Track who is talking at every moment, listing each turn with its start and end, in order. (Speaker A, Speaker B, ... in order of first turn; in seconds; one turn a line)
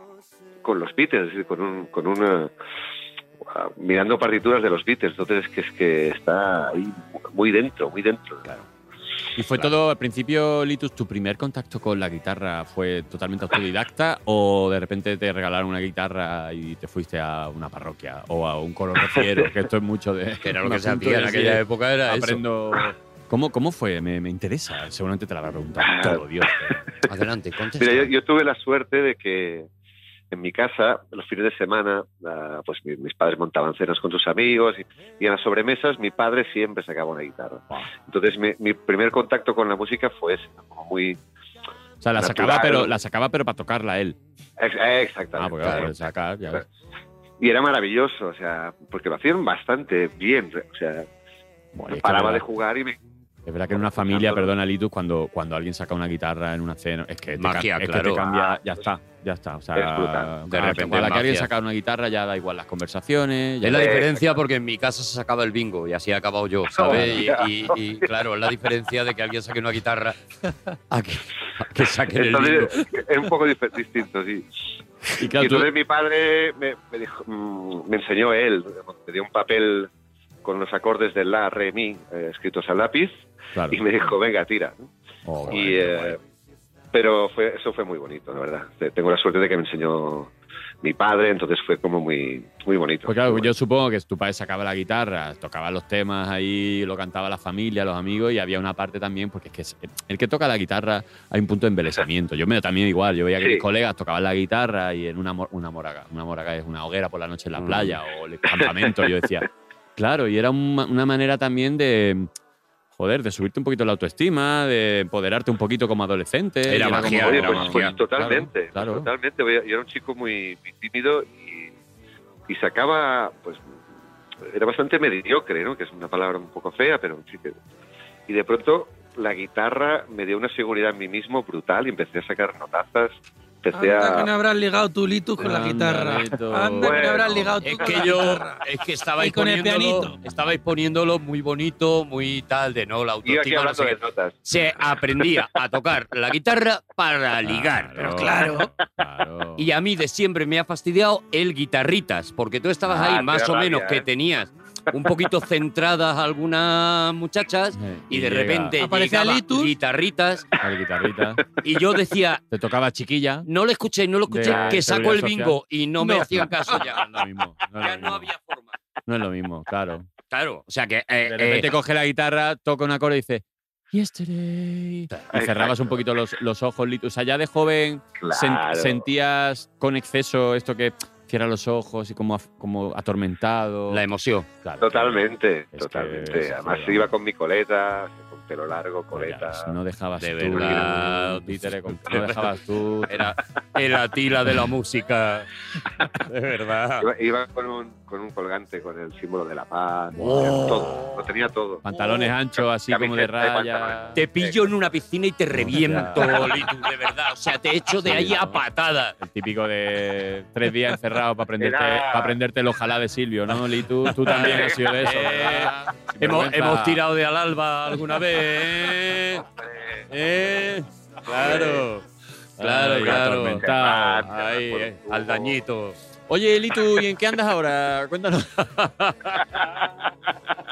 Speaker A: 0.6-2.5
Speaker A: 3.4-8.4
Speaker B: 9.3-26.8
Speaker A: 19.1-19.5
Speaker C: 20.4-22.4
Speaker A: 25.8-26.2
Speaker C: 27.1-28.1
Speaker A: 27.8-29.7
Speaker A: 30.3-41.2
Speaker B: 42.0-44.2
Speaker A: 42.2-42.9
Speaker A: 44.6-46.6
Speaker B: 45.3-46.6
Speaker A: 47.4-51.1
Speaker B: 51.7-52.4
Speaker A: 51.9-53.0
Speaker B: 53.5-64.0
Speaker A: 53.7-54.5
Speaker C: 57.4-58.2
Speaker A: 58.2-58.8
Speaker A: 59.7-60.3
Speaker C: 60.5-61.5
Speaker C: 63.6-70.2
Speaker A: 63.7-64.4
Speaker A: 66.8-68.1
Speaker B: 66.8-67.2
Speaker C: 70.9-72.8
Speaker A: 72.1-74.5
Speaker B: 75.2-75.7
Speaker A: 75.2-79.9
Speaker A: 80.4-83.1
Speaker B: 83.5-83.8
Speaker A: 83.7-84.9
Speaker B: 85.2-86.2
Speaker A: 85.5-86.2
Speaker A: 86.9-93.5
Speaker B: 93.0-112.3
Speaker C: 107.6-108.0
Speaker A: 108.5-109.1
Speaker B: 113.0-119.1
Speaker C: 116.7-118.0
Speaker A: 116.7-121.7
Speaker A: 122.5-123.6
Speaker A: 124.4-127.6
Speaker A: 128.3-134.3
Speaker D: 133.7-138.6
Speaker B: 135.4-137.5
Speaker A: 136.8-137.6
Speaker C: 137.6-148.4
Speaker D: 139.2-140.1
Speaker A: 143.2-144.4
Speaker B: 147.4-149.6
Speaker D: 148.0-148.7
Speaker C: 149.6-160.5
Speaker A: 152.9-154.1
Speaker B: 157.8-158.8
Speaker D: 158.8-159.7
Speaker B: 160.6-161.5
Speaker C: 161.6-162.4
Speaker B: 162.5-163.5
Speaker C: 163.4-168.8
Speaker B: 164.3-168.3
Speaker B: 169.1-170.1
Speaker C: 170.3-171.7
Speaker B: 171.3-184.0
Speaker A: 175.3-175.9
Speaker A: 178.2-179.0
Speaker C: 183.9-184.5
Speaker B: 184.6-187.1
Speaker A: 184.8-189.7
Speaker B: 189.1-193.3
Speaker C: 190.2-192.5
Speaker A: 190.5-190.9
Speaker C: 193.1-195.5
Speaker C: 196.1-197.1
Speaker A: 197.0-202.3
Speaker B: 200.1-201.1
Speaker C: 200.2-201.1
Speaker B: 201.8-204.2
Speaker A: 202.9-204.7
Speaker C: 204.1-209.2
Speaker B: 205.6-206.7
Speaker B: 208.0-208.6
Speaker B: 209.2-217.0
Speaker A: 211.6-212.4
Speaker C: 214.1-219.4
Speaker C: 220.1-222.0
Speaker A: 221.3-221.8
Speaker B: 221.3-221.9
Speaker B: 222.6-225.2
Speaker C: 222.6-226.0
Speaker A: 223.6-225.5
Speaker B: 226.3-229.5